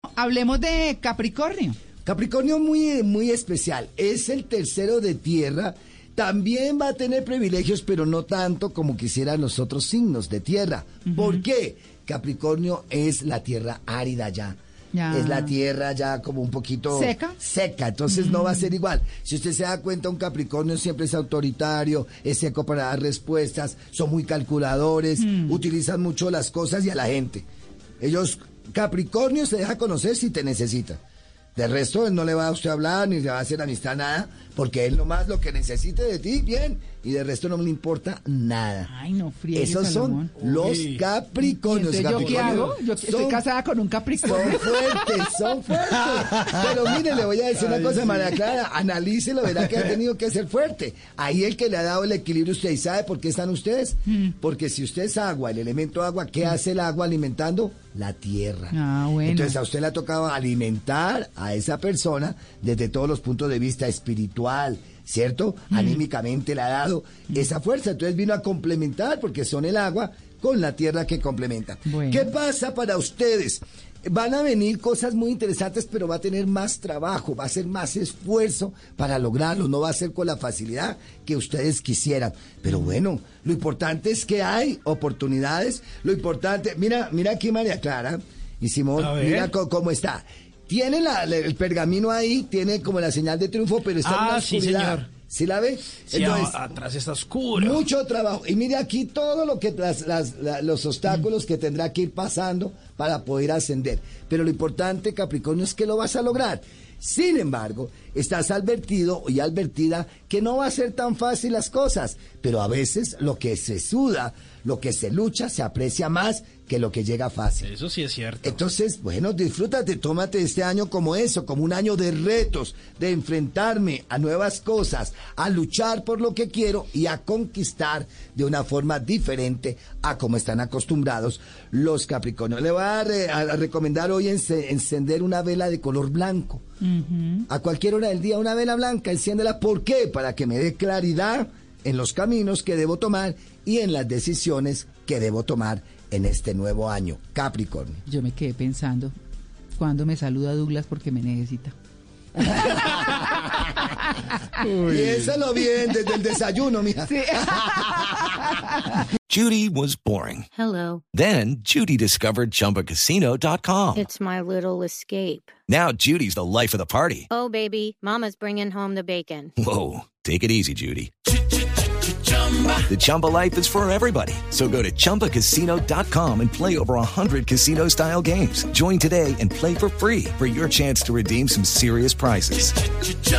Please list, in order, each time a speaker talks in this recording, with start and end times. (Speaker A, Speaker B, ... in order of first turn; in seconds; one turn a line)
Speaker A: 0.2-1.8
Speaker B: 2.0-14.6
Speaker A: 11.1-11.4
Speaker A: 14.9-15.5
Speaker B: 15.1-27.4
Speaker A: 16.9-17.4
Speaker A: 18.1-18.7
Speaker A: 25.2-25.6
Speaker B: 28.0-31.0
Speaker B: 31.6-38.9
Speaker A: 38.9-40.3
Speaker B: 39.5-43.4
Speaker C: 40.4-41.0
Speaker A: 41.4-45.3
Speaker C: 42.1-42.8
Speaker B: 44.2-96.6
Speaker A: 45.8-46.6
Speaker C: 47.7-48.3
Speaker A: 58.7-59.6
Speaker A: 65.7-66.0
Speaker A: 71.9-72.3
Speaker C: 89.0-89.5
Speaker C: 94.0-95.1
Speaker C: 96.1-97.8
Speaker B: 97.5-117.7
Speaker C: 117.6-118.6
Speaker B: 118.4-136.6
Speaker A: 136.8-137.5
Speaker B: 137.5-148.0
Speaker A: 148.1-149.1
Speaker A: 149.8-151.8
Speaker A: 152.4-154.9
Speaker B: 152.5-152.8
Speaker B: 154.7-158.5
Speaker C: 154.8-155.3
Speaker A: 157.1-159.0
Speaker D: 159.3-160.5
Speaker E: 160.6-161.0
Speaker D: 161.1-164.1
Speaker E: 163.9-165.5
Speaker D: 165.7-167.3
Speaker E: 167.3-169.5
Speaker D: 169.6-171.1
Speaker D: 172.9-183.0